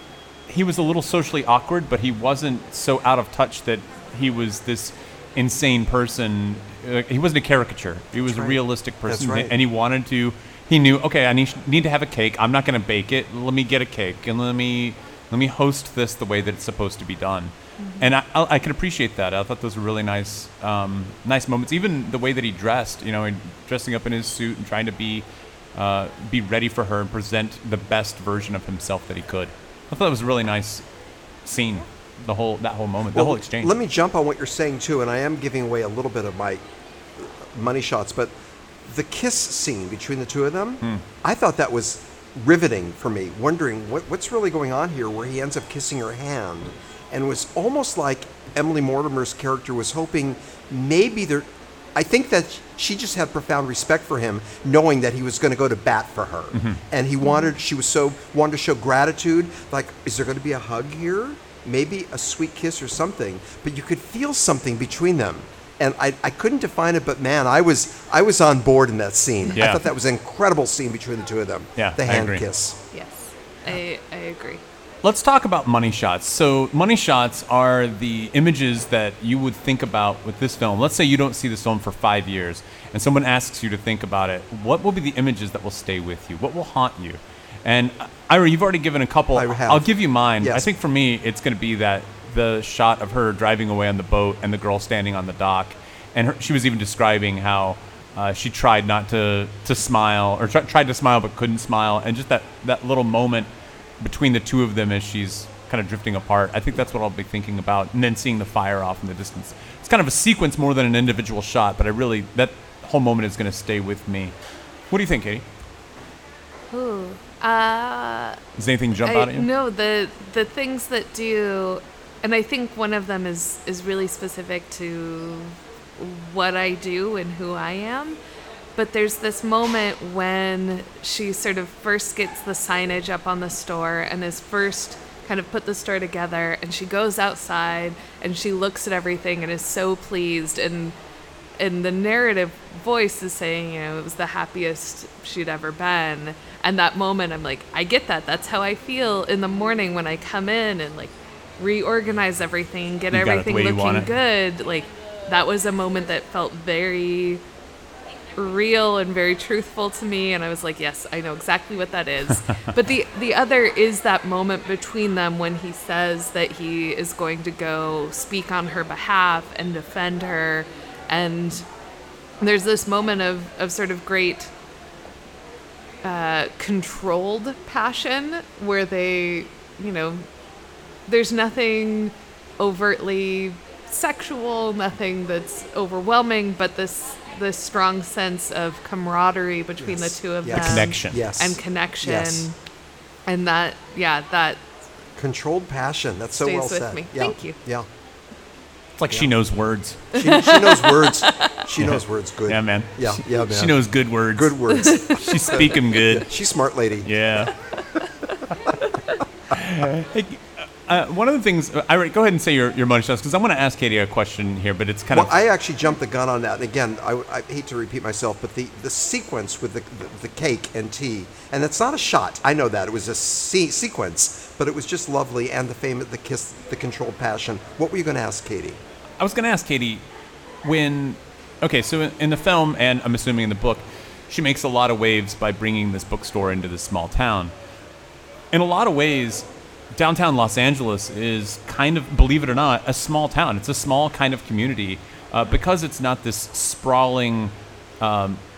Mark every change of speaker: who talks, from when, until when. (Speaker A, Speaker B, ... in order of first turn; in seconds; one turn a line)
Speaker A: 0.5-30.8
Speaker B: 8.2-9.5
Speaker C: 17.8-18.1
Speaker A: 31.4-33.7
Speaker B: 33.1-36.6
Speaker B: 37.2-38.3
Speaker B: 38.9-72.8
Speaker A: 69.5-69.8
Speaker A: 71.8-72.4
Speaker C: 72.9-74.6
Speaker A: 75.0-103.5
Speaker B: 89.3-89.9
Speaker B: 90.4-90.7
Speaker A: 104.0-114.3
Speaker A: 114.9-115.4
Speaker C: 116.7-118.4
Speaker A: 118.6-119.5
Speaker C: 119.0-128.2
Speaker C: 128.8-140.9
Speaker C: 141.6-157.4
Speaker A: 153.1-154.1
Speaker C: 158.4-171.7
Speaker C: 172.4-174.5
Speaker C: 176.0-180.3
Speaker C: 181.1-192.6
Speaker B: 189.8-192.5
Speaker A: 190.5-191.2
Speaker C: 193.2-194.6
Speaker B: 195.2-197.9
Speaker C: 196.4-197.6
Speaker A: 199.0-200.1
Speaker B: 200.1-203.8
Speaker C: 200.1-201.6
Speaker A: 201.8-206.3
Speaker B: 204.3-207.1
Speaker C: 204.8-205.2
Speaker A: 207.1-207.5
Speaker A: 209.5-215.3
Speaker B: 215.1-228.8
Speaker A: 229.2-230.0
Speaker A: 230.6-237.5
Speaker A: 238.5-248.4